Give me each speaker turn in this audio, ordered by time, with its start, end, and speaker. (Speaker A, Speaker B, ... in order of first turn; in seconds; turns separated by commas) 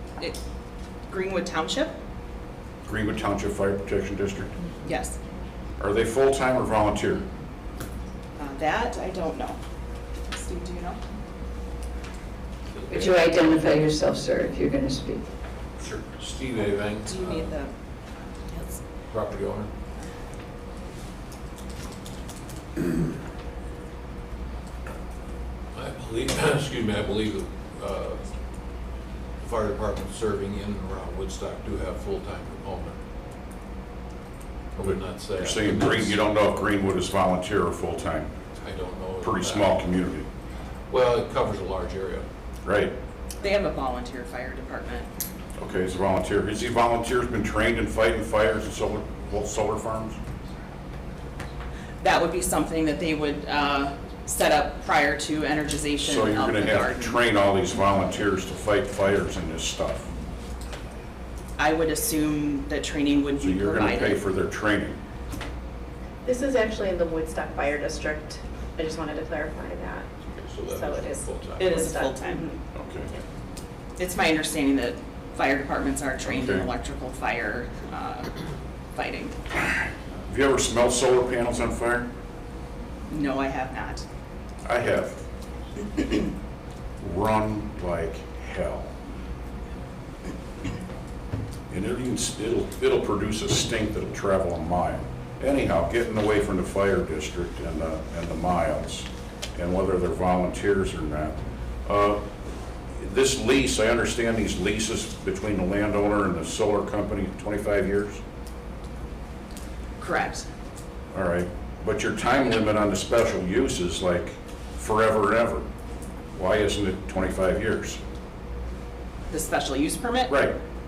Speaker A: 1.1-1.9, Speaker B: 2.9-4.5, Speaker A: 4.8-5.2, Speaker B: 5.8-7.2, Speaker A: 8.4-9.6, Speaker A: 10.3-11.0, Speaker C: 12.7-13.7, Speaker D: 13.0-15.2, Speaker C: 15.8-17.4, Speaker A: 17.1-17.7, Speaker A: 18.5-18.8, Speaker C: 19.1-19.7, Speaker C: 25.7-28.2, Speaker C: 29.4-33.0, Speaker C: 34.8-36.2, Speaker B: 34.8-38.3, Speaker C: 38.6-39.8, Speaker B: 39.2-40.3, Speaker C: 40.9-42.3, Speaker B: 42.6-42.9, Speaker A: 43.4-45.1, Speaker B: 45.6-50.2, Speaker A: 52.0-57.2, Speaker B: 56.0-60.1, Speaker A: 61.6-64.2, Speaker B: 63.4-65.0, Speaker E: 66.2-70.1, Speaker C: 70.3-71.9, Speaker E: 70.7-72.6, Speaker A: 71.6-72.5, Speaker B: 72.8-73.1, Speaker A: 74.0-78.3, Speaker B: 76.2-76.7, Speaker A: 79.0-79.3, Speaker B: 79.6-82.1, Speaker A: 83.1-84.0, Speaker B: 84.7-85.2, Speaker B: 87.0-88.9, Speaker B: 91.7-102.2, Speaker B: 103.0-108.2, Speaker A: 110.0-110.5, Speaker B: 111.1-115.7, Speaker B: 116.4-118.0, Speaker A: 119.3-120.4, Speaker B: 120.3-120.5